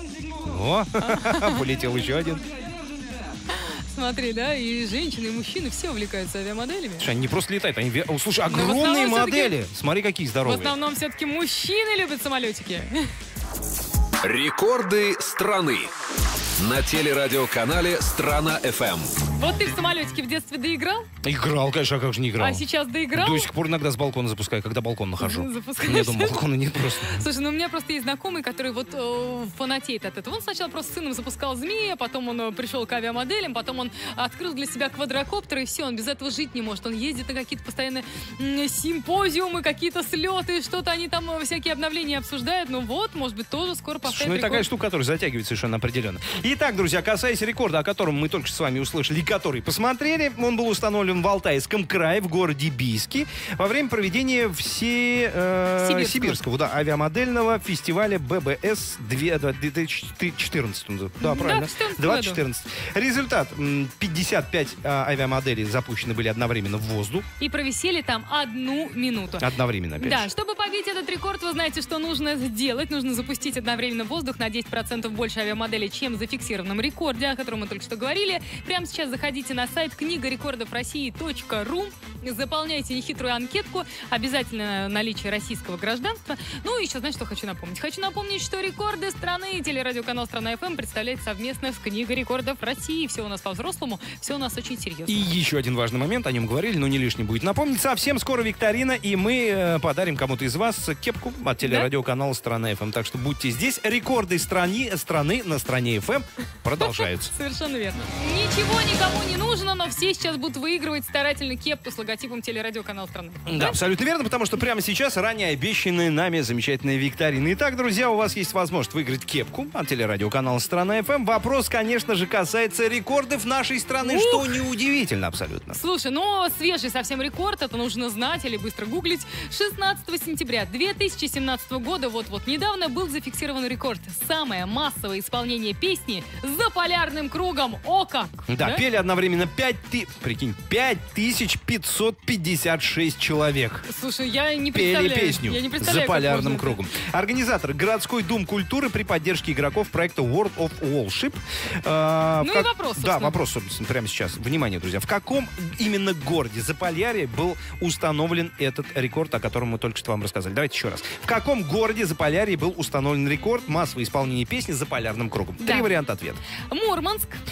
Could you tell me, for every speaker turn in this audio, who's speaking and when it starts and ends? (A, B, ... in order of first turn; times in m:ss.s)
0:00.4-0:02.4 A
0:01.0-0:01.6 B
0:03.5-0:07.1 B
0:07.0-0:10.8 A
0:08.5-0:09.5 B
0:10.4-0:13.1 B
0:14.2-0:15.9 C
0:16.6-0:19.2 C
0:19.3-0:21.1 B
0:21.2-0:27.3 A
0:22.4-0:23.4 B
0:25.2-0:26.4 B
0:27.2-0:44.6 B
0:44.0-1:07.2 A
0:55.8-0:56.4 B
1:01.2-1:02.4 B
1:07.4-1:09.4 B
1:09.4-1:10.3 A
1:10.0-1:35.2 B
1:35.1-1:47.3 A
1:41.6-1:41.9 B
1:46.8-1:53.8 B
1:53.4-2:05.8 A
2:04.0-2:04.5 B
2:05.7-2:18.8 B
2:18.5-2:23.8 A
2:23.8-2:26.8 B
2:24.7-2:46.4 A
2:32.4-2:33.4 B
2:45.6-2:45.9 B
2:46.7-2:47.4 B